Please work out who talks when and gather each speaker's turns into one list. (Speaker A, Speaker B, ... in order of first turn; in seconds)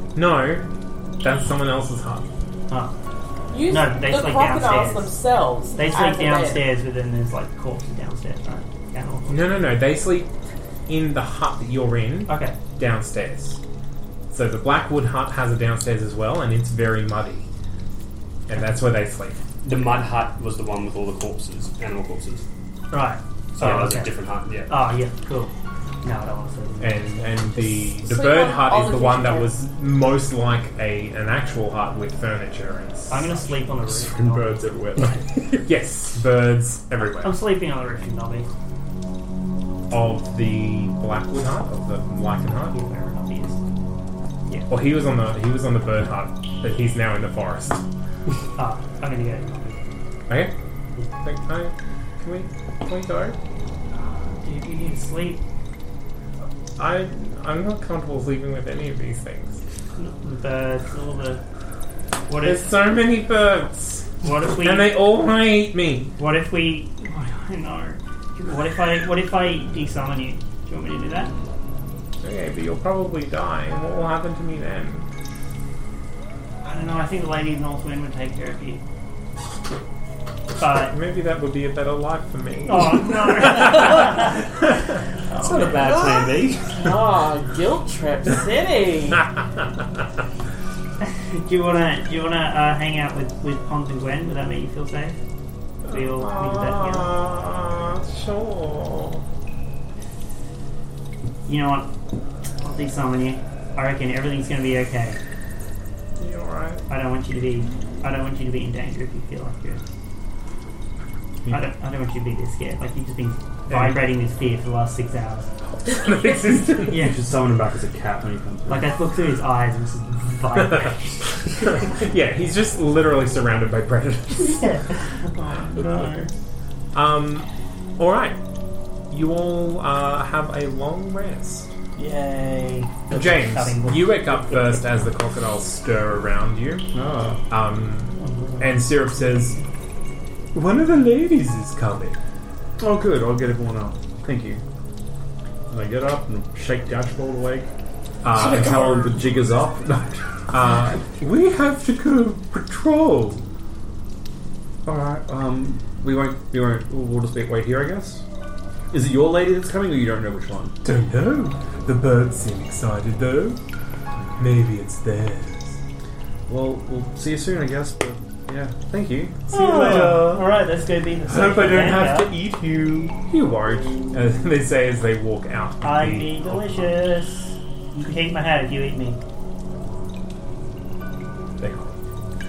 Speaker A: 0.1-0.7, 1.2-2.3, 9.3-10.3, 10.9-13.6, 14.3-17.5, 18.5-19.4, 26.8-33.6, 35.6-37.4, 39.9-42.7, 44.7-47.8, 50.3-50.5, 51.2-53.4, 56.8-59.6, 62.4-66.1, 72.2-75.0, 80.8-84.4, 95.8-99.2, 106.2-106.8, 113.7-114.0, 115.7-117.0, 121.7-124.7, 126.9-128.4, 129.1-131.7, 133.1-136.9, 137.5-139.6, 140.5-142.2, 148.2-149.1, 150.5-153.4, 160.8-163.6, 164.4-165.8, 169.5-170.4, 171.3-176.9, 181.6-181.9
Speaker B: 3.5-6.6, 27.6-29.6, 86.7-89.2
Speaker C: 3.7-5.1, 5.7-9.4, 12.3-12.6, 22.9-24.1, 24.7-27.4, 33.1-34.6, 37.2-38.5, 42.7-43.6, 48.5-49.9, 53.9-55.4, 60.0-61.4, 62.3-62.7, 64.2-65.0, 66.2-71.3, 76.6-78.8, 80.6-80.9, 82.7-84.3, 85.3-85.8, 91.0-95.2, 95.9-97.1, 101.5-101.9, 102.6-105.2, 106.9-109.9, 111.5-115.5, 116.9-117.2, 118.7-121.7, 124.4-126.3, 132.0-134.7, 138.2-139.6, 169.5-172.3, 175.8-179.2
Speaker D: 19.6-22.4, 23.5-24.7, 85.4-86.9
Speaker E: 34.1-35.2, 116.9-118.9, 136.9-137.4, 142.8-144.6, 145.7-147.7, 148.3-150.2, 154.8-158.2, 158.9-160.7, 166.5-170.3